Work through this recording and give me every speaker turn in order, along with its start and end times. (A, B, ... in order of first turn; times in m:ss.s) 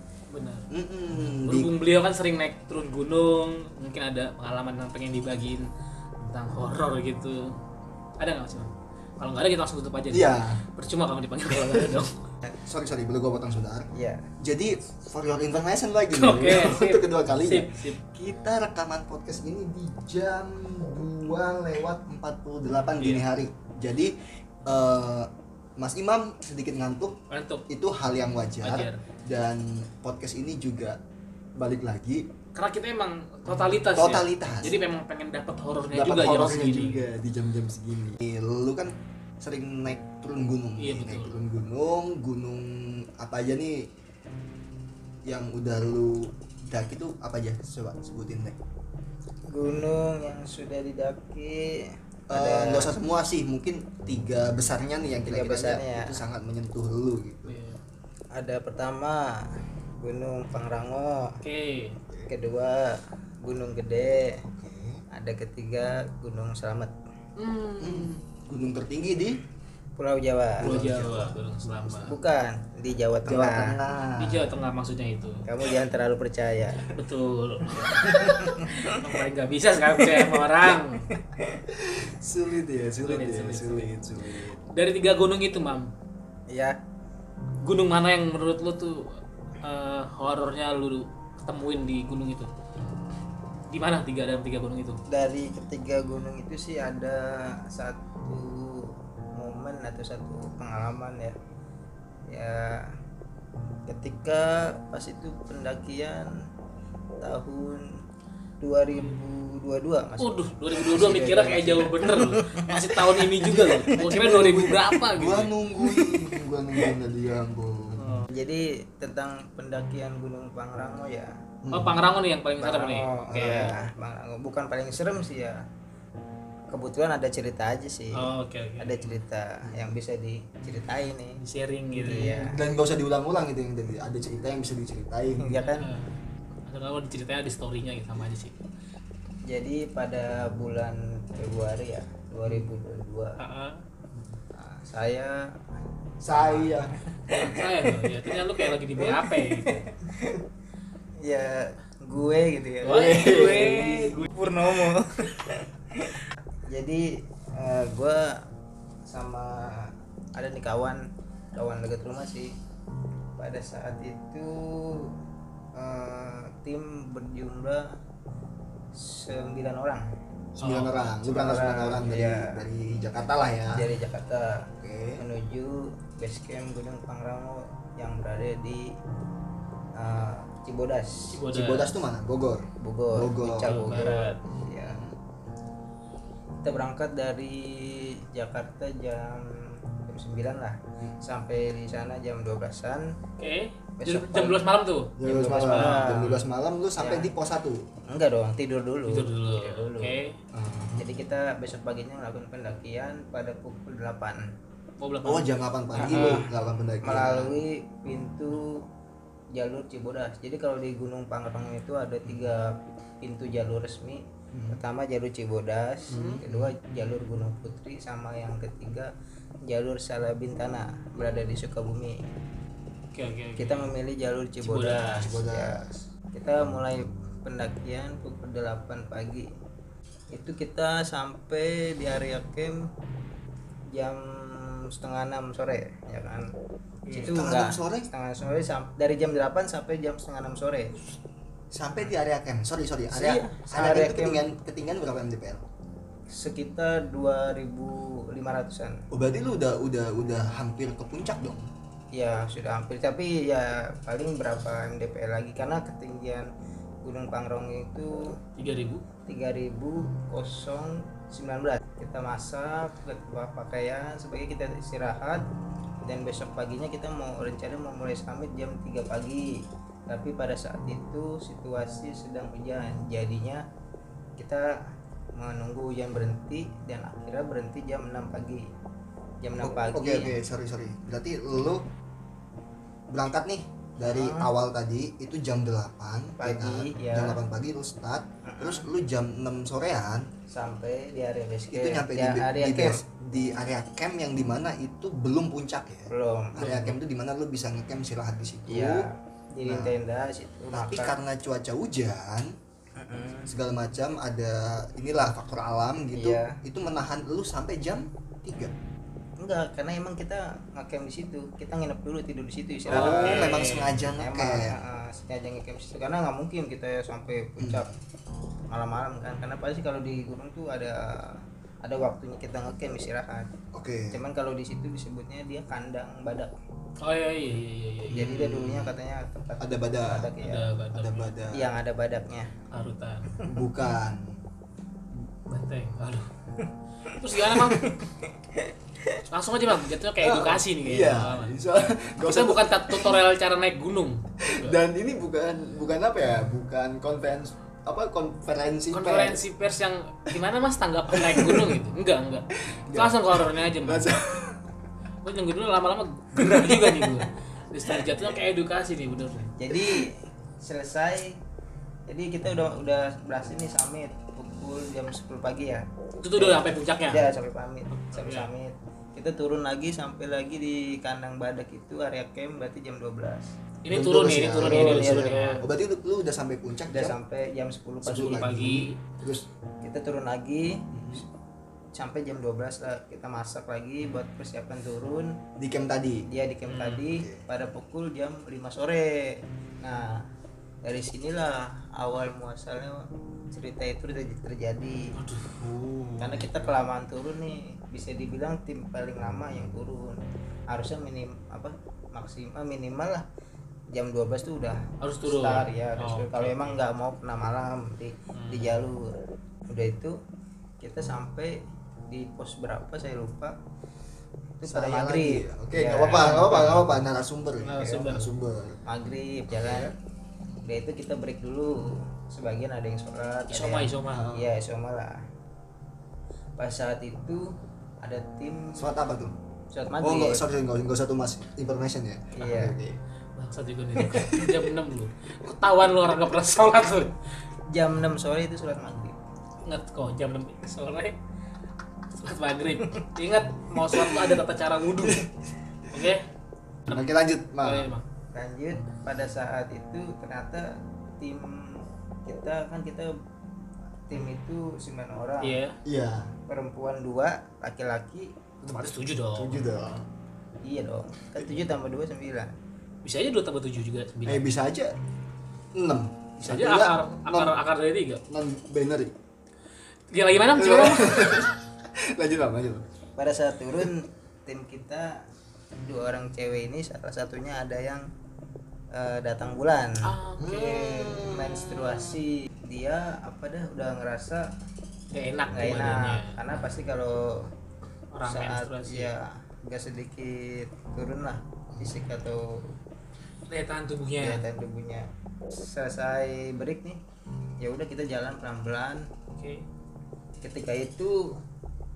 0:00.3-0:00.6 A
0:00.7-0:01.7 B
0:01.2-0:07.5 A
0:08.2-0:12.1 A
0:10.1-0:10.6 B
0:12.5-0:13.9 B
0:13.9-0:14.3 C
0:14.4-0:31.0 B
0:16.1-0:18.0 A
0:23.0-0:23.2 A
0:27.3-0:27.6 A
0:28.6-0:29.0 A
0:31.6-0:32.2 B
0:32.5-0:37.0 A
0:33.8-0:34.8 B
0:35.9-0:43.9 B
0:40.8-0:41.4 A
0:45.2-0:48.6 B
0:49.5-0:52.9 C
0:52.3-0:57.6 B
0:55.2-0:56.2 C
0:57.5-0:57.8 A
0:58.3-0:59.4 C
1:00.0-1:01.3 C
1:01.4-1:02.0 A
1:02.3-1:04.4 C
1:04.4-1:05.0 B
1:05.1-1:06.9 C
1:07.4-1:08.2 A
1:07.8-1:09.4 B
1:10.0-1:10.7 C
1:10.6-1:12.0 B
1:10.6-1:12.2 A
1:12.0-1:13.7 C
1:13.2-1:14.6 B
1:14.2-1:15.4 A
1:15.4-1:16.9 C
1:16.9-1:18.1 A
1:17.7-1:19.0 C
1:18.8-1:21.1 A
1:20.0-1:20.3 C
1:21.1-1:21.6 C
1:21.7-1:24.6 B
1:23.0-1:23.9 A
1:24.4-1:25.9 A
1:26.5-1:26.8 C
1:27.6-1:29.0 A
1:29.6-1:32.5 A
1:33.7-1:35.0 A
1:35.1-1:41.4 C
1:42.3-1:42.9 C
1:43.9-1:46.3 C
1:47.2-1:47.9 C
1:48.6-1:54.1 C
1:50.2-1:55.5 A
1:53.4-1:58.2 B
1:58.0-1:58.3 A
1:58.3-2:01.3 C
2:01.6-2:02.0 B
2:01.7-2:03.8 A
2:02.6-2:05.6 C
2:03.3-2:03.8 B
2:06.7-2:11.4 C
2:08.1-2:09.2 A
2:09.6-2:09.9 B
2:11.4-2:12.4 A
2:11.9-2:12.6 C
2:12.3-2:15.6 B
2:15.4-2:15.9 C
2:15.7-2:16.1 A
2:16.7-2:18.6 A
2:19.5-2:23.3 C
2:23.4-2:23.8 A
2:24.5-2:25.3 C
2:26.2-2:26.9 B
2:26.3-2:30.4 C
2:27.3-2:29.8 A
2:31.2-2:36.2 C
2:32.8-2:34.3 A
2:32.8-2:34.3 B
2:36.7-2:38.4 C
2:39.0-2:42.5 C
2:43.4-2:45.1 C
2:45.8-2:47.9 C
2:48.9-2:50.0 C
2:50.6-2:53.9 B
2:50.6-2:51.1 A
2:51.2-2:52.6 C
2:53.7-2:54.6 C
2:54.8-2:55.2 B
2:55.2-2:58.9 C
3:00.0-3:01.3 C
3:01.3-3:02.0 A
3:01.5-3:04.1 B
3:02.8-3:05.0 C
3:03.5-3:04.4 A
3:04.7-3:05.2 B
3:06.6-3:13.1 C
3:13.4-3:16.4 A
3:14.0-3:14.7 C
3:15.2-3:17.8 B
3:15.2-3:16.4 C
3:17.0-3:17.3 C
3:18.1-3:20.1 C
3:19.1-3:20.4 A
3:20.5-3:21.0 B
3:21.0-3:24.4 C
3:25.0-3:25.5 A
3:25.2-3:27.6 B
3:25.9-3:26.5 C
3:26.0-3:26.4 A
3:27.0-3:28.8 C
3:29.5-3:39.1 C
3:32.2-3:32.5 B
3:34.5-3:34.8 B
3:36.1-3:36.4 A
3:36.1-3:36.7 B
3:39.7-3:42.2 C
3:43.1-3:43.9 A
3:43.6-3:49.5 C
3:44.6-3:45.3 A
3:45.1-3:45.9 B
3:50.3-3:52.8 C
3:53.9-3:56.4 C
3:57.0-3:57.4 A
3:57.1-4:00.9 C
3:57.2-3:58.1 B
4:01.7-4:05.6 B
4:03.1-4:04.5 C
4:06.3-4:09.0 C
4:09.1-4:11.7 B
4:12.1-4:16.5 C
4:17.0-4:18.3 C
4:18.6-4:19.0 A
4:19.2-4:25.4 C
4:26.0-4:29.5 C
4:30.1-4:33.6 C
4:34.4-4:34.8 C
4:35.4-4:38.7 C
4:39.4-4:40.3 C
4:39.6-4:41.8 B
4:43.1-4:50.3 B
4:44.0-4:44.5 C
4:46.4-4:47.4 C
4:48.4-4:48.8 C
4:50.5-4:53.0 C
4:51.7-4:59.1 B
4:56.1-4:56.7 C
4:56.6-4:57.0 A
4:58.7-5:01.1 C
4:59.6-4:59.9 B
5:00.7-5:02.5 B
5:03.0-5:03.5 C
5:03.5-5:08.7 B
5:06.1-5:06.5 C
5:09.4-5:17.9 C
5:12.9-5:14.0 A
5:12.9-5:14.7 B
5:17.6-5:17.9 B
5:18.7-5:23.5 C
5:23.7-5:24.2 B
5:24.1-5:26.5 C
5:27.0-5:28.7 A
5:28.1-5:28.9 B
5:28.1-5:30.7 C
5:29.6-5:30.3 B
5:30.4-5:31.3 A
5:30.9-5:31.7 B
5:31.5-5:32.5 C
5:32.7-5:33.3 A
5:33.4-5:34.4 B
5:35.5-5:36.3 A
5:37.1-5:37.9 A
5:37.1-5:39.2 C
5:39.3-5:41.6 A
5:40.2-5:43.2 B
5:42.2-5:44.8 A
5:44.4-5:49.4 B
5:48.9-5:54.1 A
5:51.1-5:51.8 B
5:52.7-5:54.6 B
5:55.2-5:59.5 A
5:56.6-5:56.9 C
5:59.6-6:01.3 C
5:59.7-6:00.0 B
6:02.1-6:13.5 C
6:06.2-6:07.3 A
6:08.1-6:08.5 A
6:13.8-6:15.6 A
6:13.9-6:17.2 B
6:14.6-6:15.6 C
6:16.9-6:18.6 C
6:18.1-6:19.5 B
6:18.1-6:19.0 A
6:19.8-6:21.2 C
6:20.9-6:21.2 B
6:21.9-6:25.4 C
6:25.6-6:26.2 B
6:26.3-6:30.2 C
6:26.6-6:27.0 A
6:30.8-6:35.1 C
6:35.1-6:36.7 A
6:36.2-6:43.2 C
6:43.9-6:49.1 C
6:45.0-6:46.8 A
6:48.3-6:48.8 A
6:49.7-6:50.1 C
6:50.8-6:53.6 C
6:54.6-6:56.8 C
6:54.6-6:58.8 B
6:56.1-6:57.0 A
6:57.6-6:58.3 A
6:57.8-6:58.2 C
6:58.8-6:59.9 C
6:59.5-6:59.9 B
7:00.6-7:05.2 C
7:03.5-7:04.3 A
7:04.1-7:04.5 B
7:06.6-7:08.8 C
7:08.8-7:09.3 B
7:09.7-7:10.4 C
7:10.0-7:13.0 B
7:12.4-7:12.8 C
7:13.4-7:17.1 A
7:14.0-7:14.6 B
7:17.7-7:19.2 C
7:19.6-7:21.2 A
7:22.2-7:25.3 A
7:25.9-7:26.2 A
7:26.9-7:27.9 B
7:26.9-7:28.0 A
7:28.3-7:33.1 C
7:34.1-7:35.6 C
7:35.4-7:35.8 A
7:35.8-7:36.3 B
7:36.5-7:38.3 C
7:38.6-7:40.0 B
7:38.7-7:39.6 A
7:40.6-7:42.5 C
7:43.0-7:44.4 A
7:44.2-7:44.9 B
7:45.8-7:47.6 B
7:46.4-7:48.2 A
7:48.3-7:49.1 B
7:50.1-7:51.4 A
7:50.5-7:52.8 B
7:53.2-7:55.2 C
7:55.8-7:58.1 C
7:58.9-8:00.0 C
8:00.0-8:01.0 A
8:00.4-8:02.2 B
8:01.0-8:04.5 C
8:05.1-8:06.4 A
8:05.5-8:07.5 C
8:08.1-8:09.1 A
8:08.2-8:12.7 C
8:13.5-8:14.4 A
8:14.2-8:17.0 C
8:17.6-8:19.1 C
8:19.3-8:19.6 A
8:20.4-8:21.4 C